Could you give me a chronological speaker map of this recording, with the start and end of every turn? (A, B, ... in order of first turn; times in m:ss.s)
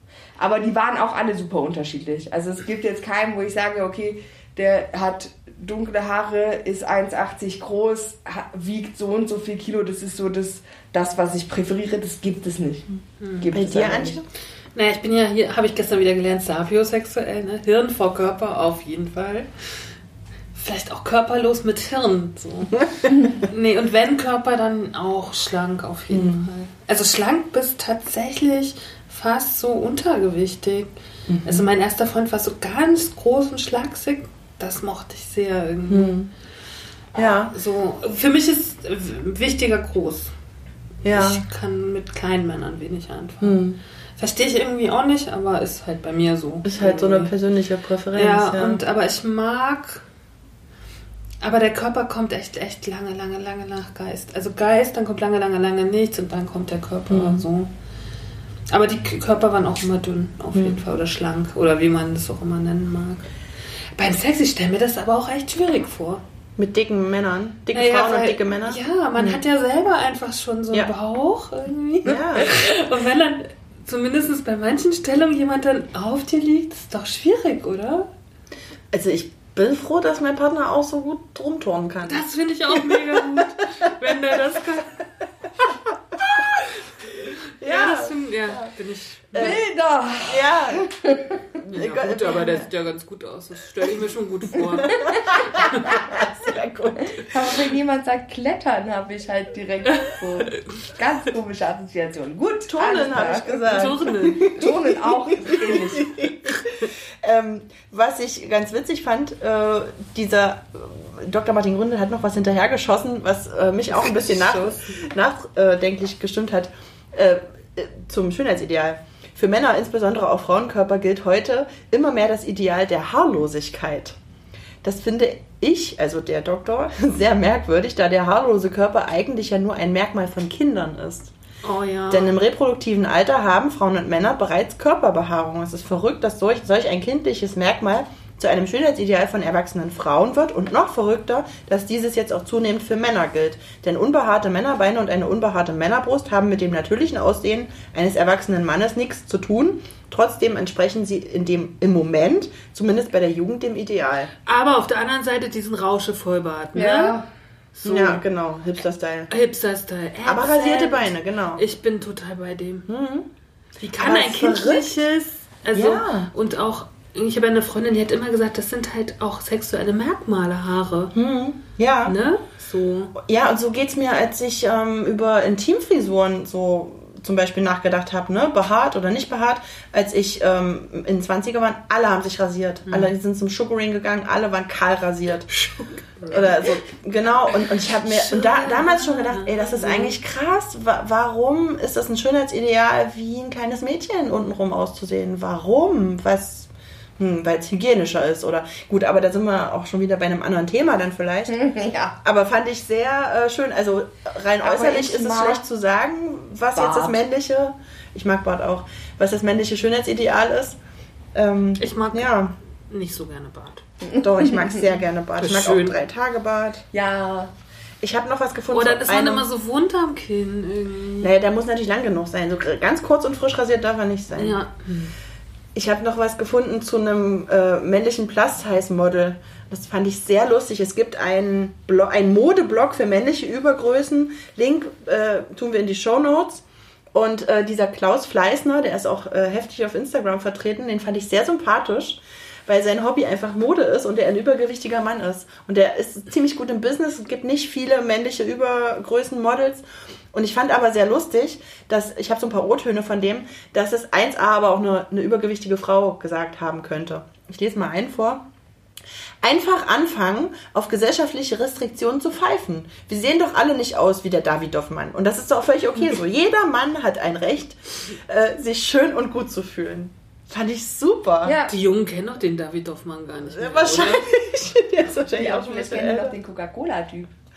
0:00.4-0:14.2 A
0:13.2-0:13.5 B
0:13.5-0:14.3 C
0:14.7-0:19.8 B
0:20.5-0:30.9 B
0:26.1-0:26.5 C
0:31.3-0:31.6 C
0:31.4-0:36.2 B
0:35.9-0:36.3 C
0:37.1-0:37.5 C
0:37.2-0:40.3 B
0:41.0-0:41.4 C
0:41.1-0:43.6 B
0:43.4-0:43.8 C
0:44.2-0:47.3 B
0:46.6-0:48.8 C
0:48.1-0:50.0 B
0:51.4-0:57.7 B
0:57.1-0:57.4 C
0:58.7-1:03.2 B
1:00.5-1:00.8 C
1:04.0-1:06.2 B
1:06.6-1:09.4 C
1:07.7-1:18.1 B
1:12.0-1:12.7 C
1:18.9-1:23.9 C
1:22.0-1:25.0 B
1:26.4-1:26.6 C
1:27.2-1:28.7 C
1:27.6-1:29.6 B
1:29.3-1:29.6 C
1:29.3-1:31.4 A
1:30.2-1:30.9 C
1:31.6-1:32.6 C
1:31.7-1:36.0 B
1:34.9-1:37.4 C
1:37.1-1:43.9 A
1:42.7-2:04.2 C
1:43.7-1:44.6 B
1:44.4-1:46.3 A
1:53.8-1:55.0 B
2:04.8-2:11.3 C
2:11.6-2:12.4 B
2:12.1-2:34.3 C
2:34.4-2:37.2 B
2:36.7-2:37.2 A
2:37.8-2:38.2 B
2:37.8-2:39.3 C
2:39.3-2:42.9 B
2:40.2-2:41.6 C
2:42.9-2:43.3 C
2:43.8-2:51.1 B
2:44.0-2:45.0 C
2:45.7-2:46.3 C
2:51.1-2:52.1 C
2:52.0-2:53.1 B
2:53.1-3:05.5 C
3:02.8-3:03.1 B
3:06.2-3:06.5 B
3:06.3-3:21.6 C
3:08.0-3:10.1 B
3:21.5-3:22.1 A
3:22.2-3:30.8 C
3:24.6-3:25.6 A
3:26.7-3:27.2 A
3:31.3-3:32.5 C
3:31.8-3:32.4 B
3:32.9-3:33.8 B
3:34.2-3:36.8 C
3:35.4-3:36.0 B
3:36.9-3:37.5 A
3:38.0-3:39.4 C
3:38.7-3:41.3 B
3:41.2-3:44.6 C
3:44.4-3:45.1 B
3:45.7-4:18.4 C
4:19.4-4:31.6 C
4:31.4-4:31.7 A
4:31.7-4:34.3 B
4:33.5-4:36.4 C
4:35.3-4:37.3 A